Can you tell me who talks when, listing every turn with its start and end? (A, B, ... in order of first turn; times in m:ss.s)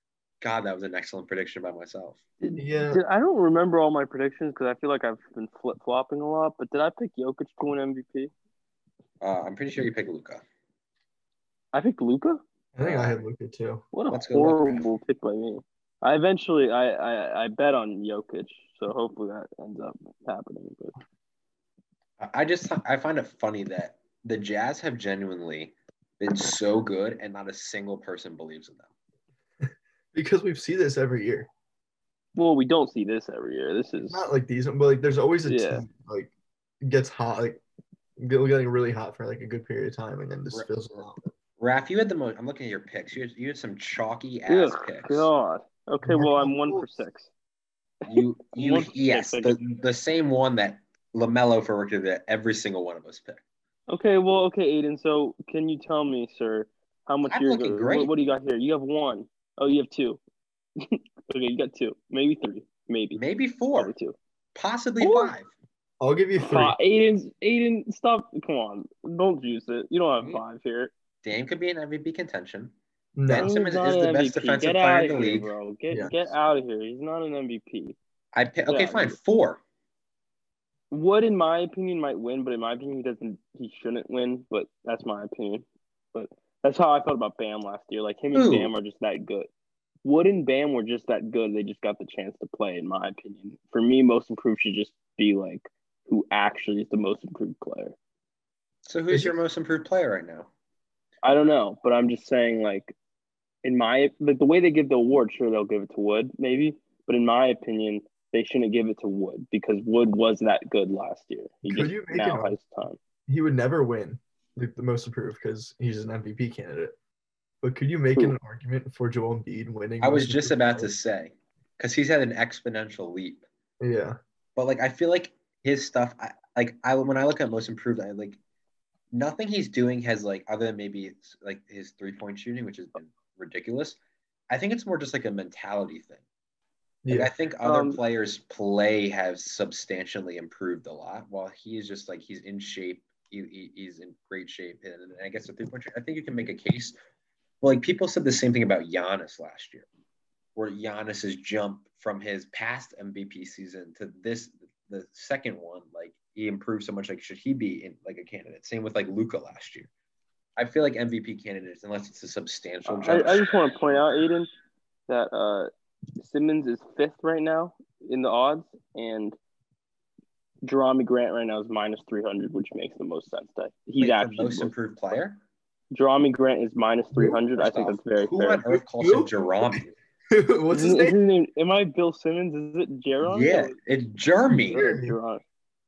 0:00.4-0:02.2 A
0:02.4-0:08.3 B
0:02.6-0:03.0 C
0:09.2-0:10.4 A
0:11.7-0:13.1 B
0:12.8-0:13.9 C
0:13.9-0:21.0 B
0:14.1-0:14.9 A
0:22.2-0:28.9 A
0:29.6-0:31.5 C
0:32.4-0:34.3 B
0:34.1-0:36.3 C
0:35.5-0:35.8 B
0:36.8-0:37.6 C
0:38.2-0:41.3 C
0:41.6-0:45.3 A
0:44.5-0:47.3 B
0:46.0-0:46.9 C
0:48.1-0:53.4 A
0:48.1-0:49.7 B
0:53.9-1:00.2 B
0:57.2-0:58.1 A
1:00.8-1:03.2 B
1:03.2-1:03.9 A
1:03.7-1:04.2 B
1:04.6-1:05.5 A
1:05.0-1:05.3 B
1:06.0-1:06.8 C
1:06.4-1:10.9 B
1:10.2-1:10.4 A
1:11.2-1:12.7 A
1:13.2-1:13.5 C
1:13.3-1:15.5 A
1:13.4-1:18.0 B
1:18.3-1:19.6 A
1:18.7-1:19.2 B
1:20.9-1:29.5 B
1:28.3-1:28.7 A
1:30.0-1:38.0 B
1:38.9-1:40.5 A
1:39.1-1:39.4 C
1:41.2-1:42.9 B
1:43.6-1:53.0 B
1:51.6-1:52.6 C
1:53.3-1:57.0 C
1:57.6-2:00.9 C
2:00.0-2:03.5 A
2:03.8-2:04.2 C
2:04.6-2:08.4 A
2:09.1-2:14.0 A
2:14.5-2:16.2 A
2:17.0-2:17.3 C
2:17.1-2:27.0 A
2:17.6-2:18.0 B
2:27.6-2:29.9 A
2:30.6-2:39.9 A
2:40.6-2:44.1 A
2:42.9-2:44.5 B
2:45.1-2:49.4 B
2:50.6-2:54.7 B
2:54.0-2:55.4 A
2:55.9-2:58.6 B
2:57.1-2:57.4 C
2:57.6-2:59.9 A
2:59.0-2:59.3 C
3:00.3-3:01.2 C
3:00.7-3:03.8 B
3:03.2-3:04.9 A
3:04.7-3:05.2 C
3:04.7-3:05.4 B